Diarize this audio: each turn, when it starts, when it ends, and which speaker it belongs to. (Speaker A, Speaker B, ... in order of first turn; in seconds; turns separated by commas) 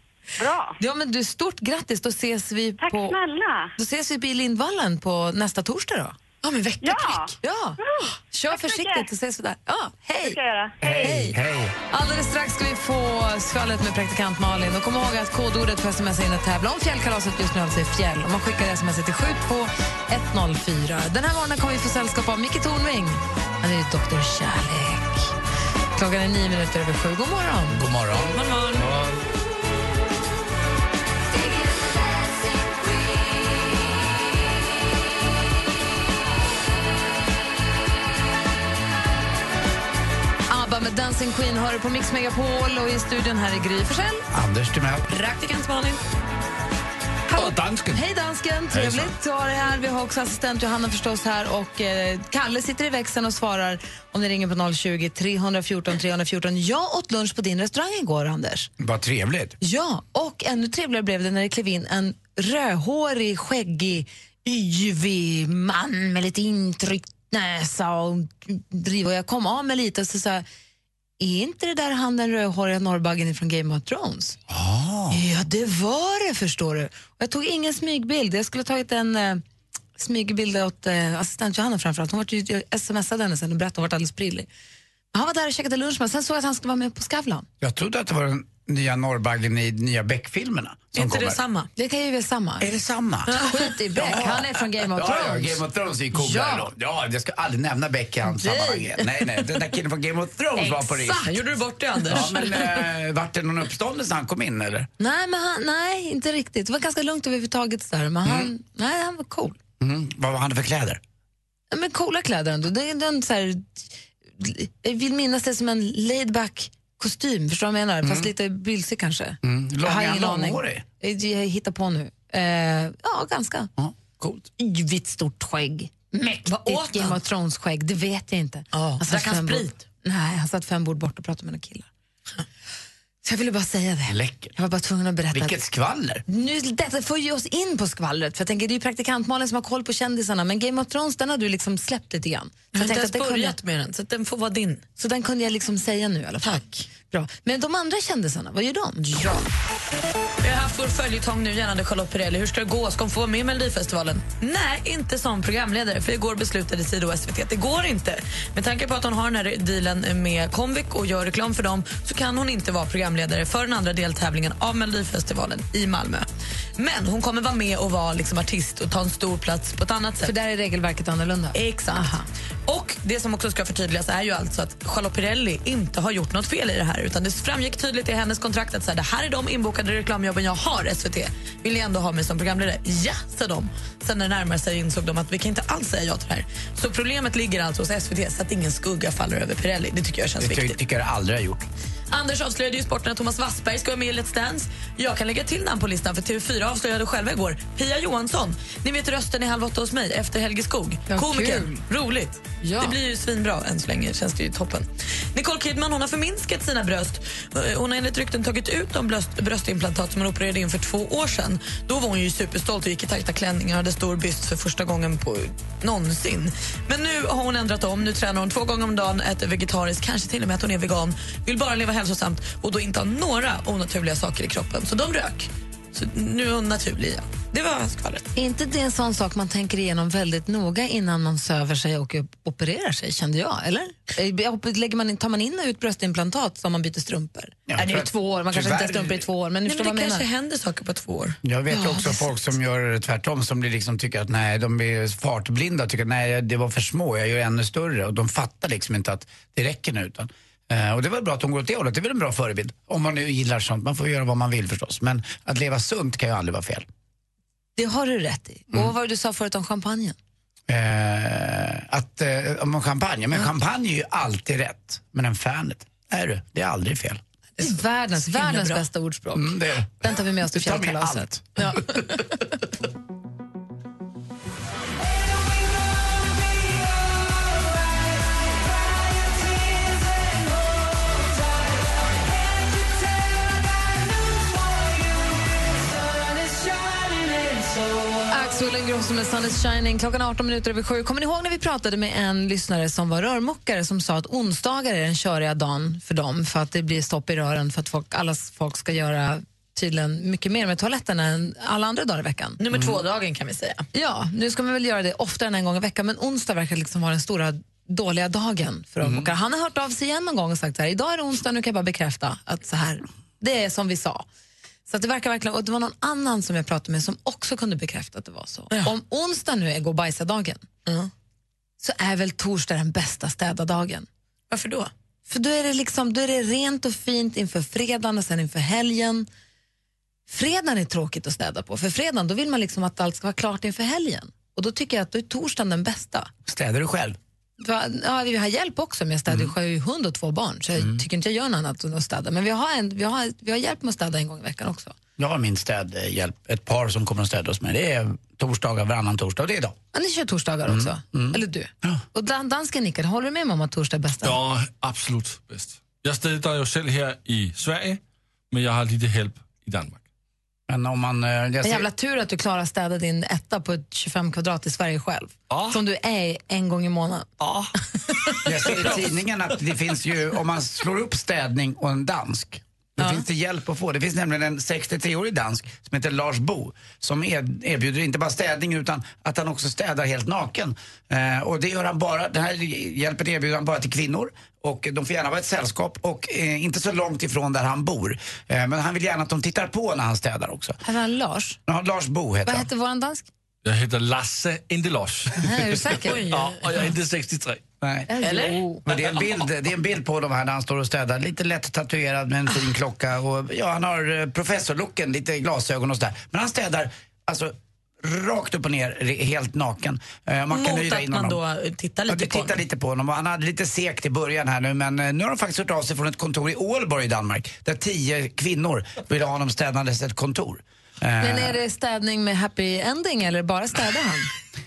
Speaker A: 0.4-0.8, Speaker B: 0.8-3.2, Speaker A: 2.8-3.7, Speaker B: 3.8-6.2, Speaker C: 6.4-7.2, Speaker A: 6.8-9.1, Speaker B: 7.4-11.4, Speaker A: 10.2-11.2, Speaker D: 10.8-11.8, Speaker B: 11.9-25.3, Speaker B: 25.9-27.8, Speaker D: 27.7-28.4, Speaker C: 28.3-28.9, Speaker E: 28.9-29.1, Speaker B: 40.5-44.3, Speaker D: 44.3-45.1, Speaker C: 45.1-46.0, Speaker B: 47.3-58.7, Speaker E: 47.4-48.0, Speaker D: 58.8-59.6, Speaker B: 59.6-70.4, Speaker B: 71.2-74.4, Speaker D: 74.5-75.2, Speaker B: 75.1-79.4, Speaker B: 80.0-84.5, Speaker B: 85.1-87.5, Speaker D: 87.6-91.4, Speaker C: 90.9-91.7, Speaker B: 91.8-92.7, Speaker D: 92.6-93.4, Speaker B: 93.3-95.6, Speaker D: 93.9-101.5, Speaker B: 96.1-96.7, Speaker B: 98.2-99.0, Speaker C: 100.6-102.8, Speaker D: 102.1-104.9, Speaker B: 105.0-109.6, Speaker D: 108.2-108.5, Speaker D: 109.8-111.0, Speaker B: 111.7-113.9, Speaker B: 114.4-123.7, Speaker D: 118.0-118.3, Speaker D: 119.4-120.8, Speaker D: 123.8-124.5, Speaker B: 124.6-131.9, Speaker C: 126.5-127.2, Speaker C: 128.7-129.8, Speaker B: 133.2-135.6, Speaker D: 134.1-134.5, Speaker D: 135.3-136.2, Speaker B: 136.3-143.6, Speaker C: 142.8-144.8, Speaker B: 145.0-149.0, Speaker C: 146.4-146.8, Speaker C: 149.0-149.5, Speaker C: 150.4-170.3, Speaker B: 170.2-172.2, Speaker C: 171.5-190.8, Speaker D: 190.4-191.7, Speaker C: 192.1-228.3, Speaker B: 201.1-201.8, Speaker B: 202.6-203.0, Speaker B: 228.3-240.2, Speaker D: 237.7-239.2, Speaker C: 239.6-241.4, Speaker D: 241.4-256.9, Speaker B: 241.8-242.2, Speaker B: 257.8-260.2, Speaker D: 260.7-267.2, Speaker C: 267.6-268.8, Speaker B: 267.6-272.4, Speaker D: 269.4-272.0, Speaker B: 288.3-302.6, Speaker C: 302.6-303.9, Speaker D: 302.7-303.0, Speaker B: 303.9-314.2, Speaker D: 309.0-309.3, Speaker B: 314.9-320.7, Speaker B: 321.8-324.1, Speaker C: 324.5-324.9, Speaker B: 325.3-329.3, Speaker B: 330.3-336.3, Speaker D: 336.5-337.2, Speaker B: 337.6-344.9, Speaker D: 339.3-339.5, Speaker D: 340.8-341.0, Speaker D: 345.2-349.8, Speaker B: 349.9-354.4, Speaker D: 350.6-352.0, Speaker E: 354.2-360.0, Speaker D: 360.7-361.9, Speaker B: 361.6-367.3, Speaker E: 365.5-365.8, Speaker E: 367.4-367.7, Speaker D: 368.4-390.8, Speaker B: 373.0-373.2, Speaker B: 390.8-391.6, Speaker D: 391.7-392.7, Speaker B: 392.4-393.3, Speaker E: 393.6-397.6, Speaker B: 395.4-396.3, Speaker C: 396.1-396.6, Speaker D: 397.8-398.3, Speaker B: 398.1-398.9, Speaker C: 398.2-398.6, Speaker D: 398.9-411.4, Speaker C: 410.5-412.6, Speaker D: 412.1-421.6, Speaker B: 421.2-424.3